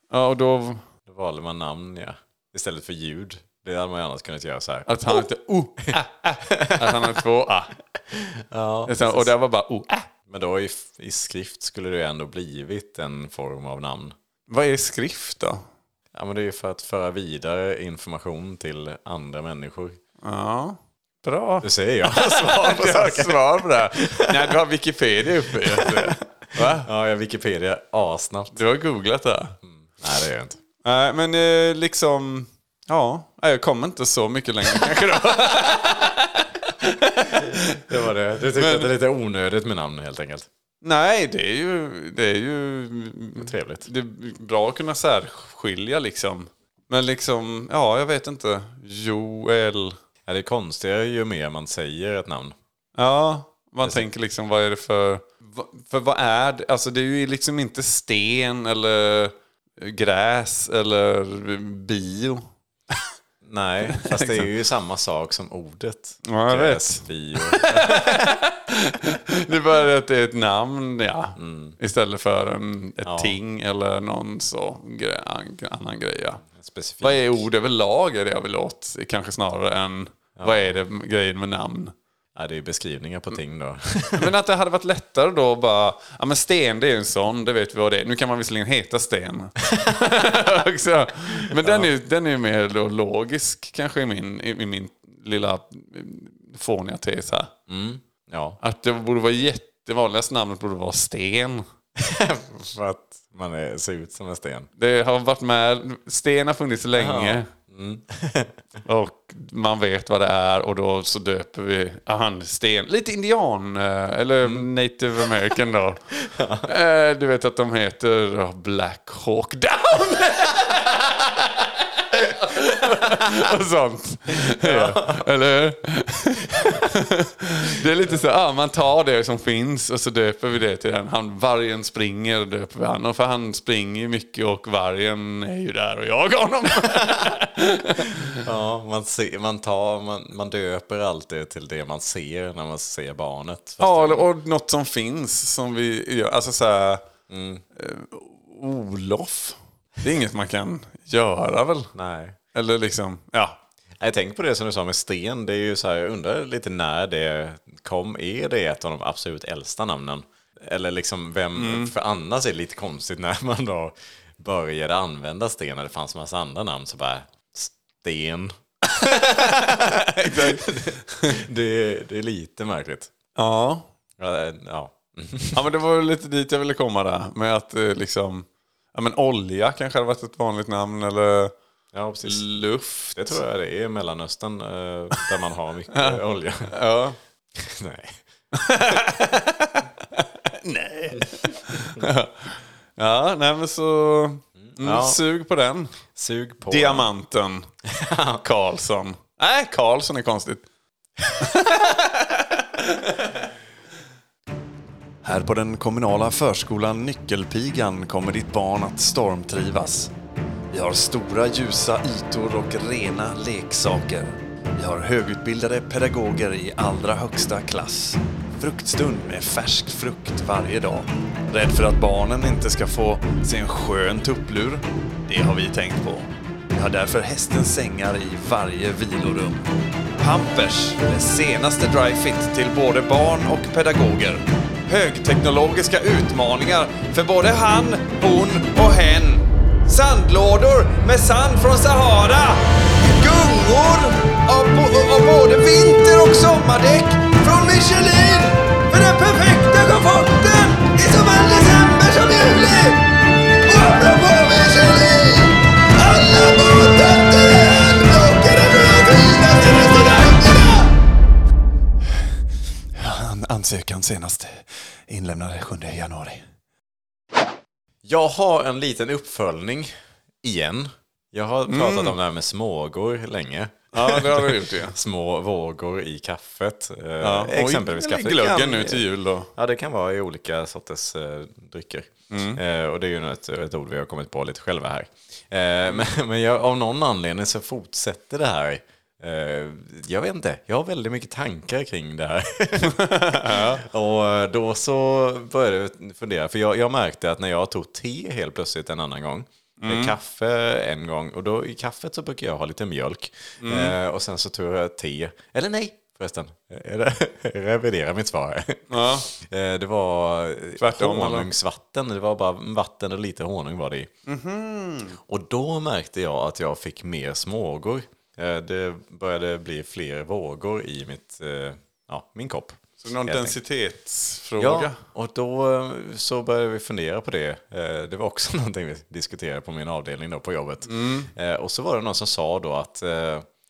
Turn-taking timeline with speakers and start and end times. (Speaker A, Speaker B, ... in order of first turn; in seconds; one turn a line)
Speaker A: 0.1-0.9
Speaker B: 1.1-5.2
Speaker A: 4.9-7.7
Speaker B: 6.5-7.2
Speaker B: 8.1-9.3
Speaker A: 8.9-10.1
Speaker B: 10.3-14.2
Speaker A: 14.5-15.6
Speaker B: 16.1-20.0
Speaker A: 20.2-26.9
Speaker B: 21.6-24.6
Speaker B: 25.6-28.6
Speaker A: 28.6-29.6
Speaker B: 29.6-30.6
Speaker A: 30.8-38.0
Speaker B: 37.3-40.5
Speaker A: 38.5-38.9
Speaker A: 40.8-50.0
Speaker B: 43.4-43.9
Speaker B: 50.3-52.5
Speaker A: 53.0-62.4
Speaker B: 63.4-68.3
Speaker A: 63.9-64.5
Speaker A: 66.3-76.4
Speaker B: 71.4-71.8
Speaker B: 73.0-73.4
Speaker B: 76.5-77.4
Speaker A: 77.0-81.9
Speaker B: 80.4-80.7
Speaker B: 82.4-84.3
Speaker A: 84.1-97.5
Speaker B: 91.5-91.9
Speaker B: 97.7-98.6
Speaker A: 98.6-101.6
Speaker B: 102.0-104.7
Speaker A: 104.8-107.5
Speaker B: 107.0-108.6
Speaker A: 108.8-116.0
Speaker B: 116.2-116.7
Speaker A: 116.6-138.4
Speaker B: 124.5-125.2
Speaker B: 138.3-144.3
Speaker A: 143.8-147.1
Speaker B: 147.3-147.6
Speaker A: 147.8-151.9
Speaker B: 151.9-152.4
Speaker A: 152.5-153.6
Speaker B: 154.0-168.5
Speaker A: 161.6-161.9
Speaker A: 168.9-171.4
Speaker B: 169.2-173.1
Speaker A: 173.4-173.9
Speaker B: 174.2-175.6
Speaker A: 175.5-181.5
Speaker B: 181.9-182.5
Speaker A: 182.2-183.4
Speaker B: 183.2-186.8
Speaker A: 185.9-186.2
Speaker A: 186.7-187.2
Speaker B: 187.6-188.2
Speaker A: 188.5-195.9
Speaker B: 194.6-195.2
Speaker B: 196.2-197.1
Speaker A: 196.7-197.7
Speaker B: 197.9-198.4
Speaker A: 198.4-200.7
Speaker A: 201.4-203.4
Speaker A: 205.2-210.1
Speaker A: 210.7-253.1
Speaker A: 253.6-261.0
Speaker A: 262.9-266.5
Speaker B: 268.1-279.0
Speaker A: 271.7-272.2
Speaker A: 273.9-275.0
Speaker A: 277.2-279.5
Speaker B: 279.6-314.1
Speaker A: 282.3-282.6
Speaker A: 292.8-293.8
Speaker A: 299.8-300.2
Speaker A: 303.6-304.0
Speaker A: 308.9-309.3
Speaker A: 310.8-311.5
Speaker A: 314.3-315.2
Speaker B: 315.3-323.6
Speaker A: 323.0-325.0
Speaker B: 324.6-333.5
Speaker A: 330.9-331.3